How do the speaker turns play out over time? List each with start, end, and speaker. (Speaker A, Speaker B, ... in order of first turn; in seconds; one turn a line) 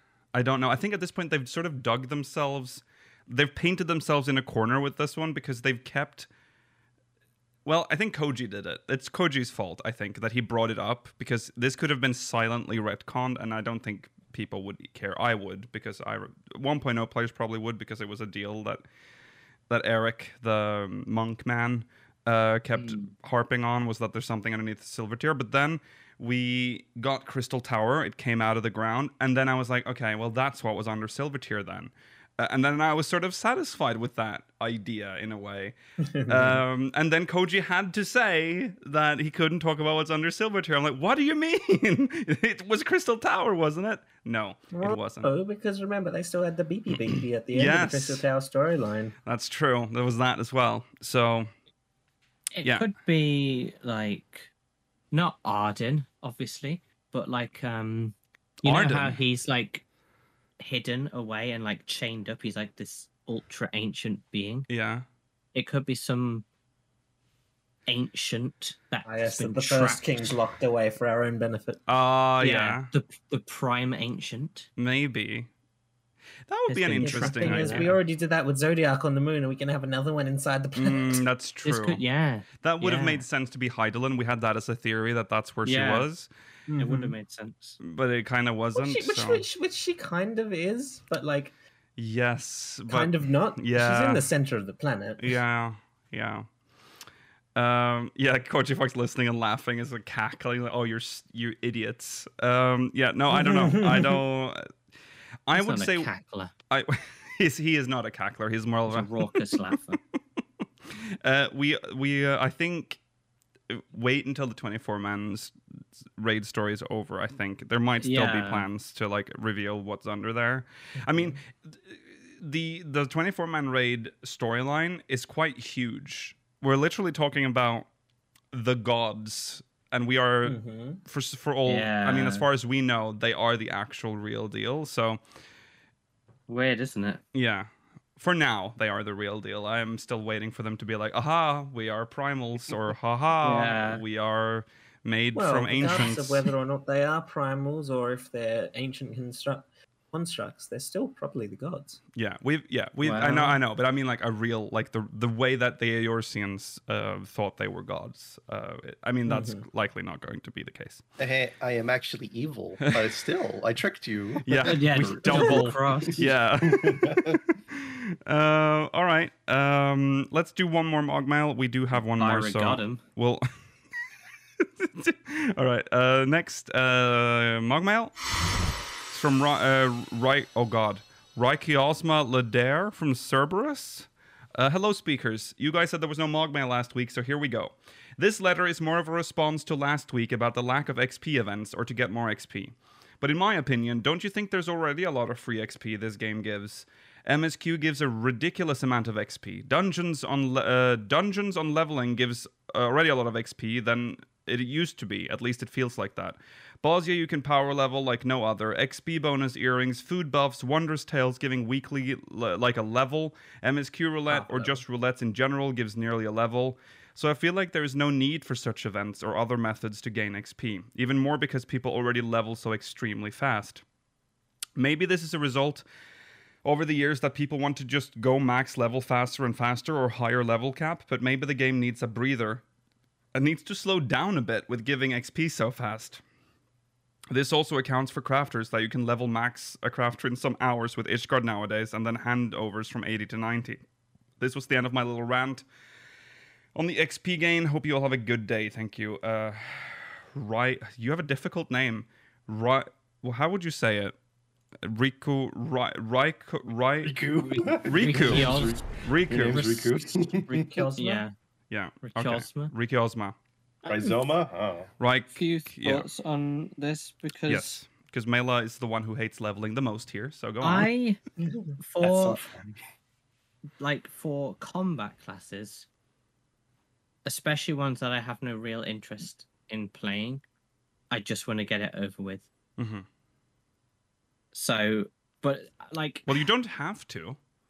Speaker A: 0.3-6.3
Speaker A: 7.6-18.8
Speaker A: 19.7-35.8
Speaker B: 22.7-23.1
Speaker C: 36.0-36.6
Speaker A: 36.3-45.3
Speaker C: 44.7-49.1
Speaker A: 46.9-48.2
Speaker A: 49.2-51.5
Speaker B: 52.5-54.5
Speaker A: 52.6-52.9
Speaker B: 55.1-59.8
Speaker A: 58.6-59.2
Speaker B: 60.6-64.7
Speaker A: 64.7-65.0
Speaker B: 65.5-66.5
Speaker B: 67.9-70.1
Speaker C: 69.0-71.8
Speaker A: 71.9-72.9
Speaker B: 72.4-74.7
Speaker A: 74.8-75.5
Speaker A: 76.5-77.9
Speaker B: 76.7-78.0
Speaker C: 77.0-81.2
Speaker A: 80.8-82.0
Speaker B: 81.6-83.2
Speaker A: 82.6-86.3
Speaker B: 85.6-86.1
Speaker C: 86.7-87.1
Speaker B: 86.8-87.8
Speaker A: 87.8-89.5
Speaker C: 88.8-91.5
Speaker A: 92.0-94.3
Speaker C: 92.9-95.4
Speaker A: 95.2-96.5
Speaker A: 97.5-104.6
Speaker C: 103.3-104.2
Speaker A: 105.5-106.1
Speaker B: 105.5-106.5
Speaker A: 106.7-110.0
Speaker B: 108.9-110.0
Speaker A: 110.9-113.0
Speaker A: 113.7-115.5
Speaker A: 116.2-127.9
Speaker B: 118.0-118.7
Speaker C: 121.0-121.4
Speaker A: 128.5-135.2
Speaker C: 130.4-131.0
Speaker B: 131.7-132.4
Speaker B: 136.5-137.2
Speaker A: 137.3-146.5
Speaker B: 143.4-144.0
Speaker C: 145.3-152.0
Speaker A: 152.2-161.0
Speaker B: 153.0-153.6
Speaker C: 159.3-159.6
Speaker D: 161.2-167.4
Speaker A: 164.4-173.4
Speaker B: 164.6-166.3
Speaker B: 172.2-173.0
Speaker A: 174.6-178.1
Speaker A: 179.1-223.8
Speaker C: 214.3-214.8
Speaker A: 224.8-225.8
Speaker A: 226.6-232.6
Speaker A: 233.3-236.2
Speaker A: 237.3-243.8
Speaker A: 244.4-245.6
Speaker A: 246.8-254.1
Speaker A: 254.8-257.2
Speaker D: 257.0-260.9
Speaker B: 257.4-258.9
Speaker A: 257.8-259.9
Speaker B: 259.5-260.0
Speaker C: 260.5-261.3
Speaker B: 260.5-261.3
Speaker A: 261.7-263.4
Speaker B: 262.0-262.7
Speaker D: 263.9-264.9
Speaker A: 265.0-266.1
Speaker B: 265.3-267.8
Speaker A: 267.5-270.9
Speaker B: 270.6-271.2
Speaker C: 271.4-271.7
Speaker B: 271.8-272.4
Speaker D: 272.0-272.8
Speaker B: 273.8-275.9
Speaker B: 277.2-280.4
Speaker B: 281.1-282.5
Speaker A: 282.8-283.1
Speaker B: 284.5-286.4
Speaker A: 286.3-287.4